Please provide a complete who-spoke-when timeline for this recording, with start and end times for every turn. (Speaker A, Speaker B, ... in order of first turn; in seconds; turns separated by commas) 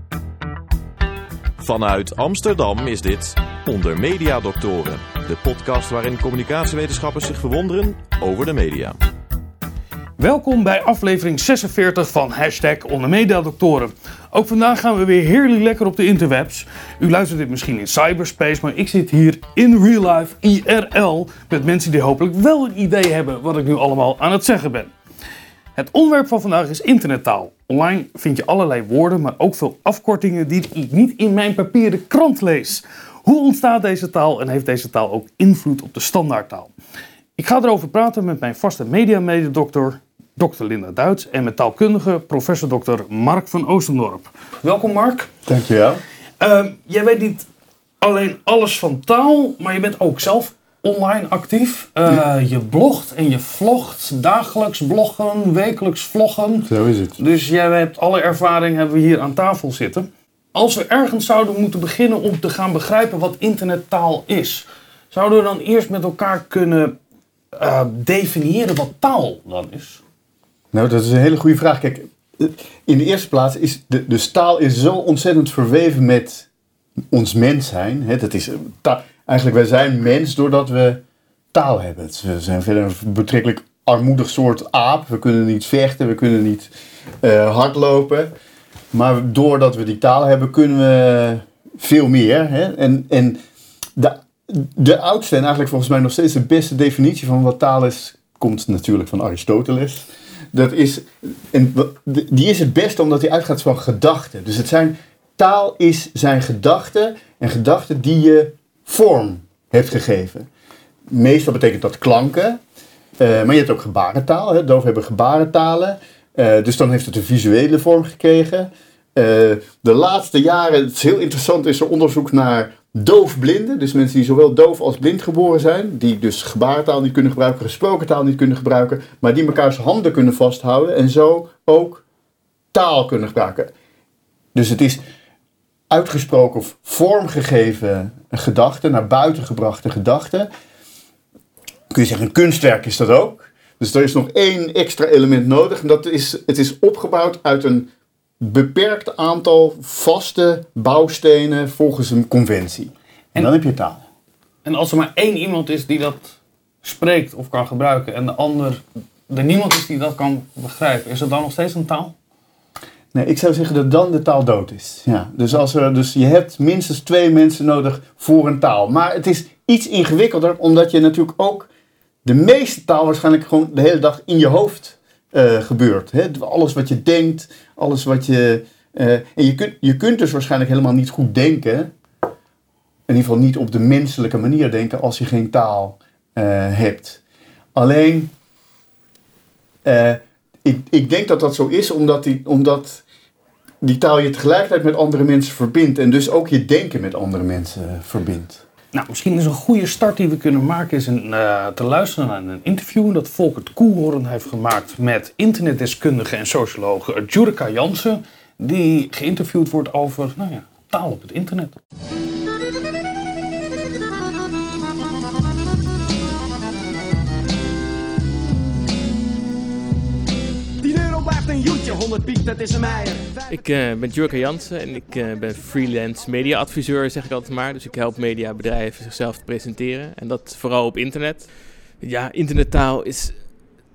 Speaker A: 1.6-9.0, Speaker B: 10.2-24.9, Speaker B: 25.8-36.7, Speaker B: 37.4-45.3, Speaker C: 45.5-46.0, Speaker B: 46.4-47.5, Speaker B: 48.0-67.0, Speaker C: 56.7-57.2, Speaker B: 67.5-70.0, Speaker C: 70.7-76.5, Speaker C: 77.1-88.3, Speaker C: 88.9-93.4, Speaker C: 94.0-110.5, Speaker C: 111.1-112.6, Speaker C: 113.2-132.0, Speaker C: 132.7-133.7, Speaker C: 134.5-135.0, Speaker C: 135.9-140.5, Speaker C: 141.9-154.0, Speaker B: 154.7-162.1, Speaker C: 163.1-171.7, Speaker C: 172.2-181.9, Speaker C: 183.1-187.2, Speaker C: 187.8-188.3, Speaker C: 189.8-193.0, Speaker C: 193.8-198.6, Speaker B: 198.9-211.8, Speaker D: 220.8-223.6, Speaker E: 223.5-233.6